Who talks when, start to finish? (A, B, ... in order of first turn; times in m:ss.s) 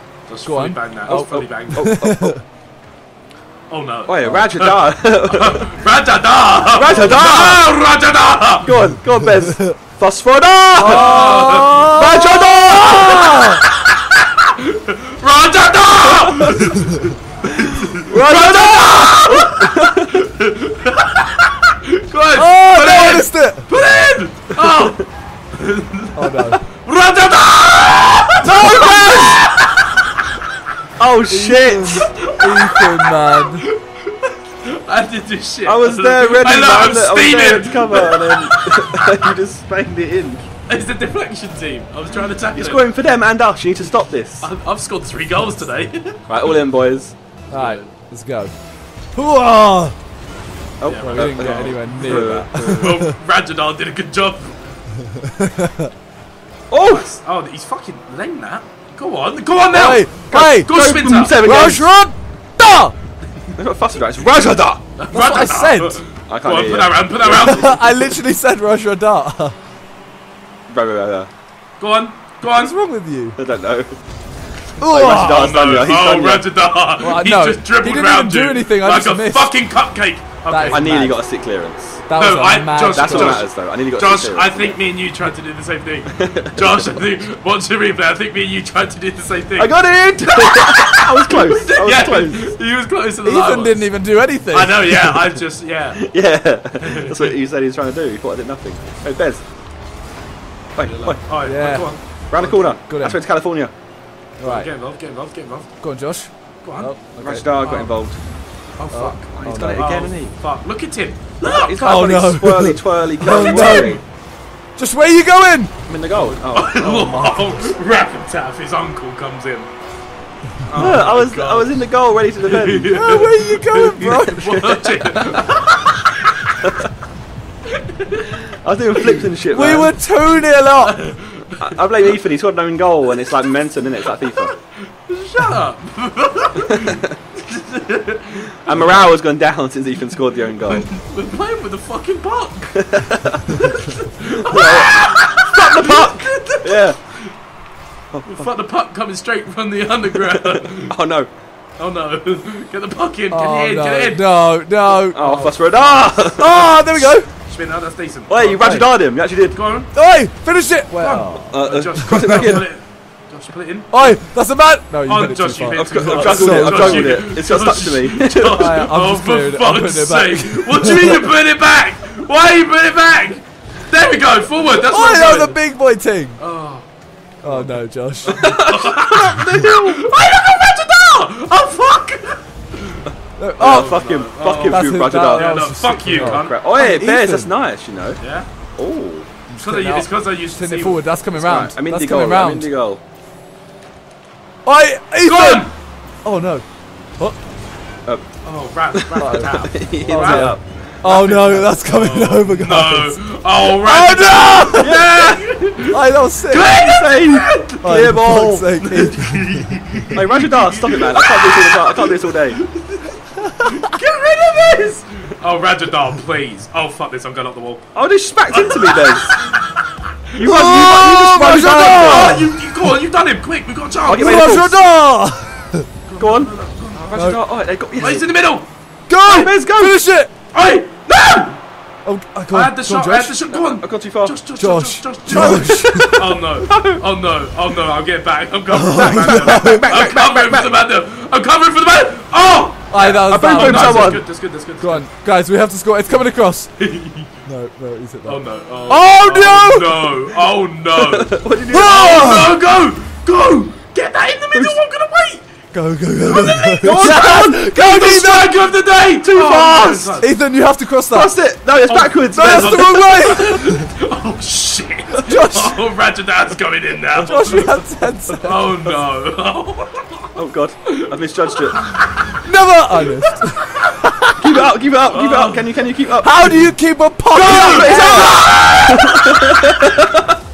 0:00.3-0:01.9 A
0:00.4-0:02.4 B
0:01.1-0:02.4 C
0:03.7-0:08.7 A
0:04.1-0:05.7 C
0:06.7-0:07.7 C
0:08.6-0:13.4 C
0:09.5-0:09.8 B
0:10.8-0:12.0 A
0:10.8-0:13.6 B
0:13.6-0:25.0 A
0:18.1-0:18.6 C
0:18.1-0:19.3 B
0:19.6-0:20.1 C
0:22.3-0:23.7 B
0:25.5-0:29.9 A
0:26.2-0:26.6 B
0:28.4-0:29.4 B
0:31.0-0:32.0 C
0:31.3-0:33.6 B
0:31.9-0:38.9 A
0:35.6-0:40.4 C
0:40.7-0:42.9 A
0:42.5-0:44.5 C
0:44.4-0:46.2 A
0:46.3-0:47.1 C
0:47.5-0:47.9 A
0:47.5-0:48.5 B
0:49.1-0:49.9 B
0:50.8-0:53.0 C
0:50.9-0:54.8 A
0:51.0-0:53.1 B
0:55.1-0:55.9 B
0:56.7-0:57.1 C
0:56.8-1:01.4 A
0:59.7-1:00.8 B
1:00.3-1:01.9 C
1:01.4-1:02.9 B
1:03.6-1:04.8 C
1:05.0-1:07.8 A
1:05.1-1:06.0 B
1:06.3-1:07.8 C
1:07.3-1:09.5 B
1:10.7-1:11.3 C
1:11.8-1:12.8 A
1:12.4-1:13.4 B
1:13.4-1:14.0 C
1:14.8-1:15.6 B
1:14.8-1:16.5 C
1:15.3-1:20.9 A
1:17.0-1:19.5 B
1:20.5-1:21.2 B
1:20.7-1:22.0 C
1:22.1-1:23.5 B
1:22.1-1:33.9 A
1:22.8-1:24.8 C
1:26.1-1:26.9 C
1:29.6-1:32.4 C
1:33.2-1:35.1 B
1:34.5-1:36.0 A
1:36.0-1:39.4 C
1:36.8-1:37.3 A
1:40.8-1:41.2 C
1:40.8-1:42.6 A
1:41.4-1:41.9 B
1:42.3-1:43.7 C
1:42.8-1:43.2 B
1:44.4-1:45.7 A
1:44.4-1:44.7 B
1:45.8-1:47.5 B
1:46.6-1:46.9 A
1:47.2-1:48.2 C
1:47.5-1:47.9 A
1:48.8-1:51.8 A
1:48.9-1:49.9 B
1:49.3-1:50.3 C
1:51.4-1:54.0 C
1:51.8-1:54.0 B
1:53.3-1:54.0 A
1:54.8-1:55.7 B
1:55.9-1:56.9 C
1:56.1-1:59.7 A
1:56.8-1:57.7 B
2:00.6-2:01.8 A
2:00.7-2:02.9 C
2:02.4-2:06.8 A
2:02.9-2:04.7 B
2:04.6-2:04.9 C
2:07.9-2:08.3 A
2:08.5-2:09.9 C
2:09.5-2:11.0 B
2:10.8-2:11.8 A
2:11.6-2:14.5 C
2:14.3-2:19.1 A
2:16.7-2:17.0 C
2:18.7-2:20.8 C
2:20.5-2:22.8 A
2:22.8-2:23.4 C
2:23.5-2:27.3 A
2:24.4-2:27.0 C
2:28.1-2:28.4 C
2:28.2-2:31.0 A
2:30.3-2:31.3 C
2:31.8-2:34.2 A
2:33.3-2:35.6 B
2:34.9-2:37.1 C
2:35.2-2:39.9 A
2:36.2-2:37.3 B
2:38.3-2:39.6 C
2:38.6-2:38.9 B
2:39.9-2:42.6 B
2:40.9-2:44.2 A
2:41.5-2:42.7 C
2:43.9-2:47.2 B
2:45.0-2:55.6 A
2:45.7-2:48.8 C
2:48.5-2:51.3 B
2:54.8-2:56.4 B
2:56.4-2:56.8 A
2:57.4-2:58.6 B
2:57.4-3:03.0 A
2:58.4-3:00.0 C
3:03.4-3:04.0 B
3:03.6-3:05.5 C
3:03.6-3:06.6 A
3:04.6-3:07.5 B
3:06.1-3:08.2 C
3:08.2-3:08.5 A
3:08.8-3:09.3 C
3:09.5-3:12.7 B
3:09.6-3:11.7 A
3:11.4-3:13.0 C
3:14.6-3:15.7 B
3:15.2-3:15.7 A
3:16.2-3:16.6 B
3:18.4-3:20.6 A
3:18.9-3:21.7 C
3:19.2-3:19.5 B
3:20.0-3:24.9 B
3:21.8-3:37.9 A
3:24.7-3:25.4 C
3:25.9-3:26.8 B
3:26.6-3:28.7 C
3:27.8-3:30.2 B
3:30.1-3:32.6 C
3:33.5-3:33.8 B
3:37.9-3:39.4 C
3:38.5-3:44.5 A
3:40.4-3:42.4 C
3:40.4-3:42.5 B
3:44.0-3:44.8 C
3:44.2-3:45.8 B
3:46.1-3:47.0 A
3:46.2-3:48.3 C
3:47.1-3:47.4 B
3:48.0-3:48.7 A
3:49.1-3:50.3 B
3:49.2-3:50.0 C
3:50.5-3:51.6 A
3:52.0-3:53.3 B
3:52.5-4:05.1 A
3:53.5-3:54.4 C
3:54.6-3:56.4 B
3:55.3-3:57.0 C
3:58.7-3:59.9 B
3:59.1-4:00.7 C
4:02.9-4:04.3 B
4:03.0-4:04.2 C
4:04.8-4:06.7 B
4:06.8-4:07.3 A
4:07.4-4:10.2 B
4:08.2-4:15.4 A
4:11.0-4:12.2 C
4:11.7-4:12.6 B
4:14.5-4:14.8 C
4:15.7-4:18.7 B
4:16.2-4:20.3 A
4:16.8-4:17.6 C
4:19.2-4:20.2 C
4:20.2-4:21.3 B
4:21.1-4:23.0 C
4:21.9-4:30.2 A
4:22.3-4:23.9 B
4:25.2-4:25.8 B
4:27.1-4:28.9 B
4:30.4-4:31.8 C
4:30.8-4:31.1 A
4:31.7-4:32.2 A
4:32.3-4:34.4 B
4:32.9-4:33.3 A
4:34.4-4:36.6 C
4:35.1-4:35.8 A
4:36.2-4:38.4 B
4:37.3-4:39.5 A
4:37.6-4:40.0 C